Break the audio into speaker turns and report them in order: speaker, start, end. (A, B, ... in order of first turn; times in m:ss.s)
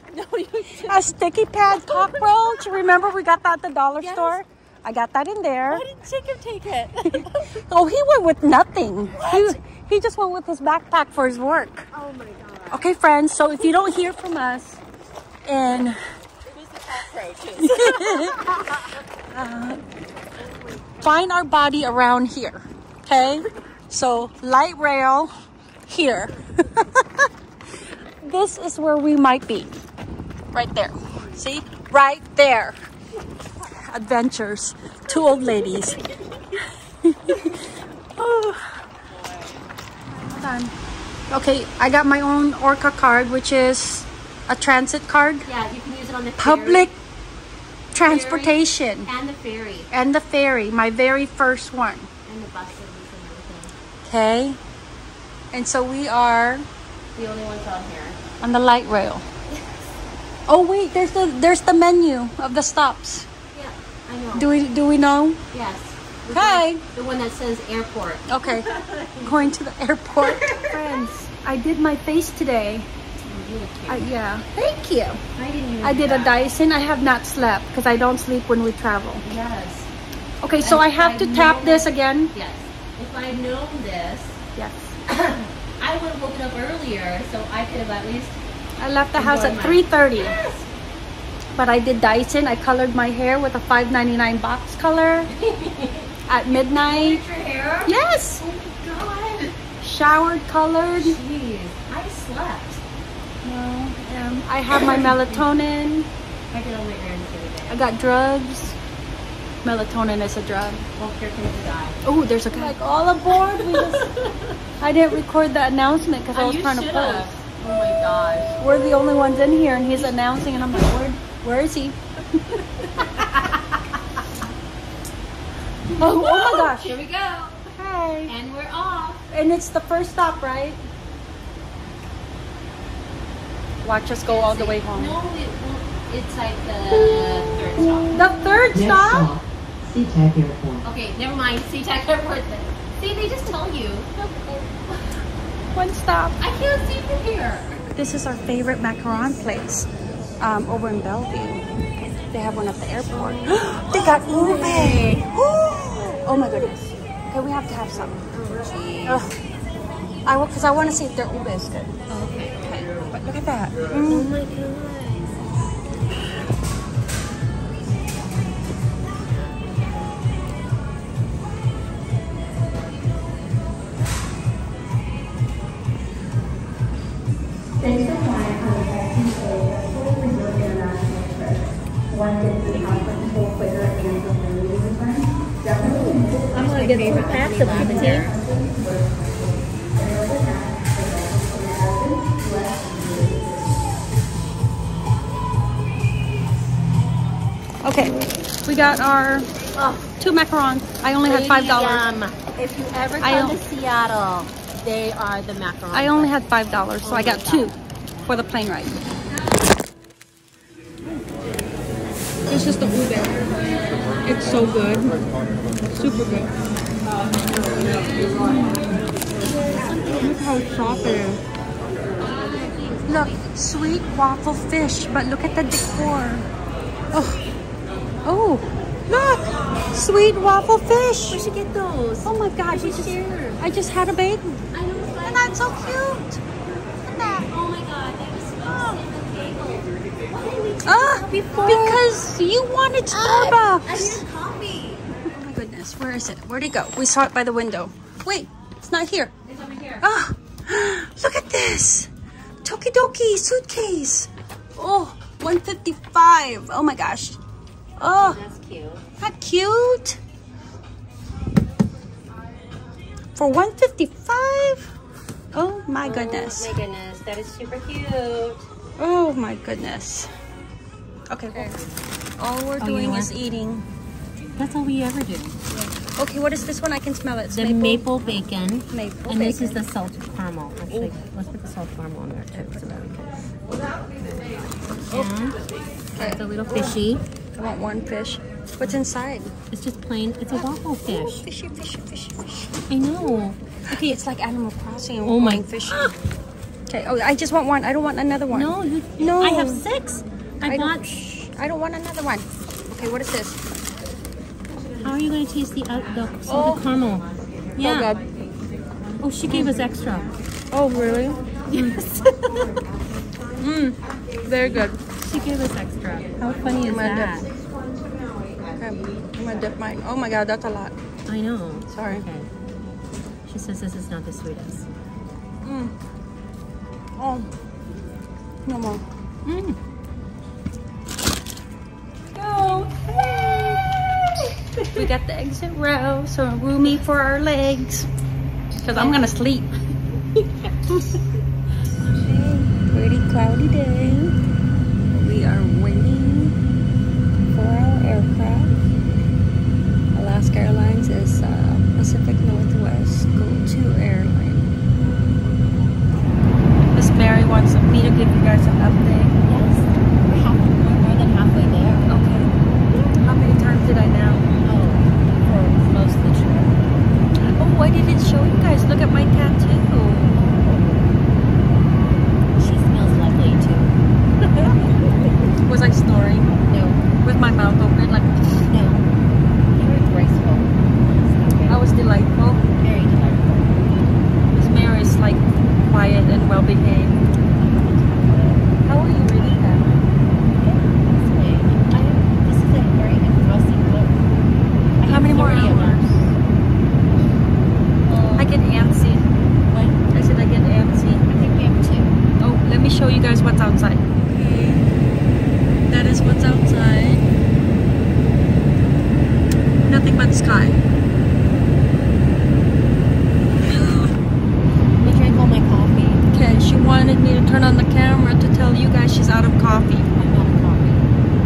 0:00.1-0:01.1 A
0:00.8-0:05.8 B
0:01.7-0:02.9 A
0:04.0-0:04.4 A
0:05.7-0:07.5 A
0:07.1-0:11.9 B
0:09.2-0:09.6 A
0:11.9-0:12.8 A
0:12.7-0:14.8 B
0:15.5-0:16.0 B
0:16.5-0:18.9 A
0:17.6-0:18.6 B
0:19.3-0:19.8 B
0:20.5-0:21.1 A
0:21.0-0:25.3 B
0:25.9-0:27.3 B
0:28.2-0:29.7 B
0:30.5-0:32.8 B
0:33.8-0:36.0 B
0:35.4-0:36.4 A
0:37.0-0:37.6 B
0:38.2-0:38.8 B
0:40.1-0:40.7 B
0:41.3-0:45.5 B
0:45.4-0:46.9 A
0:46.4-0:47.0 B
0:47.9-0:49.1 B
0:48.0-0:49.9 A
0:49.9-0:52.1 B
0:52.3-0:53.7 A
0:54.0-0:54.6 B
0:55.5-0:56.7 B
0:57.2-0:58.2 A
0:58.4-0:59.2 B
0:59.5-0:59.9 A
1:00.5-1:03.3 B
1:03.5-1:04.6 A
1:04.4-1:05.4 B
1:05.5-1:09.4 A
1:06.3-1:06.8 B
1:08.3-1:08.7 B
1:09.2-1:12.9 B
1:10.2-1:10.8 A
1:13.2-1:14.1 A
1:13.9-1:15.2 B
1:15.4-1:16.5 A
1:15.8-1:19.2 B
1:19.2-1:19.9 A
1:20.4-1:22.3 B
1:20.6-1:24.4 A
1:24.6-1:25.0 B
1:25.1-1:28.4 A
1:28.8-1:30.4 B
1:29.2-1:30.7 A
1:31.6-1:35.3 B
1:35.3-1:36.2 A
1:36.3-1:37.2 B
1:36.8-1:39.6 A
1:37.8-1:38.4 B
1:39.8-1:41.2 B
1:41.0-1:42.8 A
1:43.4-1:46.1 B
1:44.7-1:45.4 A
1:46.5-1:47.9 A
1:47.7-1:48.8 B
1:49.6-1:50.8 B
1:51.0-1:52.8 A
1:52.0-1:54.1 B
1:53.3-1:54.6 A
1:54.8-1:57.3 B
1:56.3-1:58.6 A
1:58.6-2:03.3 B
2:00.1-2:00.9 A
2:02.5-2:03.8 A
2:06.0-2:07.7 A
2:06.0-2:07.0 B
2:07.7-2:08.3 B
2:08.3-2:09.2 A
2:09.3-2:10.8 B
2:13.8-2:15.2 B
2:14.3-2:18.2 A
2:18.1-2:19.3 B
2:18.7-2:20.8 C
2:20.8-2:25.2 A
2:25.7-2:26.4 B
2:26.4-2:27.8 A
2:28.0-2:29.9 B
2:29.1-2:29.5 A
2:30.4-2:31.7 B
2:32.3-2:38.2 B
2:33.1-2:35.3 A
2:38.3-2:39.2 A
2:39.1-2:39.4 B
2:40.2-2:41.9 B
2:42.1-2:42.7 A
2:42.6-2:44.4 B
2:44.0-2:45.5 A
2:49.2-2:50.1 A
2:57.8-3:13.8 B
3:06.5-3:08.4 A
3:17.8-3:19.5 B
3:19.8-3:20.1 A
3:20.2-3:22.1 B
3:21.2-3:26.4 A
3:23.2-3:23.6 B
3:25.9-3:29.0 B
3:27.0-3:27.7 A
3:32.5-3:33.6 B
3:33.8-3:34.2 A
3:34.2-3:35.2 B
3:35.9-3:36.5 B
3:38.3-3:41.4 B
3:42.2-3:43.5 A
3:43.1-3:46.5 B
3:47.1-3:47.4 B
3:48.2-3:51.4 B
3:51.3-3:53.6 A
3:52.2-3:54.7 B
3:54.7-3:56.1 A
3:55.2-3:56.4 B
3:57.1-3:57.5 B
3:57.2-4:02.0 A
3:58.6-3:59.0 B
4:00.8-4:04.2 B
4:03.1-4:05.1 A
4:05.2-4:09.3 B
4:09.5-4:10.0 A
4:10.0-4:12.1 B
4:12.6-4:17.4 B
4:18.0-4:18.4 B
4:18.1-4:19.0 A
4:19.2-4:20.2 B
4:23.4-4:24.9 B
4:25.5-4:26.7 B
4:26.0-4:28.7 A
4:29.0-4:30.3 B
4:31.3-4:31.8 B
4:32.4-4:33.8 B
4:32.8-4:33.3 A
4:34.6-4:35.6 A
4:35.7-4:38.4 B
4:37.5-4:43.3 A
4:38.9-4:39.8 B
4:40.9-4:41.2 B
4:45.1-4:47.2 A
4:47.6-4:49.5 B
4:49.7-4:51.4 A
4:51.1-4:52.7 B
4:52.9-4:53.6 A
4:53.9-4:56.1 B
4:55.2-4:56.1 A
4:56.9-4:59.8 B
4:58.5-5:01.1 A
5:00.6-5:03.6 B
5:05.0-5:08.2 A
5:06.5-5:06.9 B
5:07.8-5:08.2 B
5:09.2-5:10.3 A
5:09.4-5:09.9 B
5:10.7-5:12.6 B
5:11.6-5:13.7 A
5:13.6-5:15.1 B
5:14.6-5:17.5 A
5:16.4-5:17.5 B
5:18.7-5:21.0 B
5:21.3-5:22.5 A
5:21.9-5:22.2 B
5:23.5-5:24.9 A
5:25.6-5:25.9 B
5:27.2-5:27.5 B
5:28.7-5:29.5 B
5:29.5-5:29.8 A
5:32.4-5:33.8 B
5:32.6-5:32.9 A
5:35.0-5:38.1 B
5:38.8-5:39.7 B
5:39.0-5:39.3 A
5:40.4-5:40.7 A
5:42.1-5:44.4 B
5:45.1-5:46.6 B
5:47.5-5:48.7 B
5:50.1-5:54.7 B
5:56.9-5:59.4 B
5:59.4-6:02.1 A
6:02.1-6:04.5 B
6:04.6-6:07.0 A
6:07.4-6:10.4 B
6:10.3-6:11.1 A
6:12.5-6:15.3 A
6:14.6-6:14.9 B
6:15.6-6:16.5 B
6:16.7-6:17.0 A
6:17.2-6:18.7 B
6:18.7-6:19.0 A
6:19.7-6:21.9 A
6:21.7-6:22.6 B
6:22.7-6:24.2 A
6:24.5-6:27.2 B
6:27.6-6:28.7 A
6:28.8-6:29.9 B
6:30.5-6:34.4 A
6:35.0-6:36.2 A
6:35.0-6:36.2 B
6:38.1-6:38.4 A
6:38.4-6:39.3 B
6:39.7-6:40.0 A
6:40.1-6:41.3 B
6:41.3-6:42.2 A
6:42.4-6:44.8 B
6:45.9-6:47.2 B
6:49.9-6:50.8 B
6:53.6-6:54.2 B
6:55.0-6:56.2 A
6:56.3-7:00.1 B
7:00.2-7:01.1 A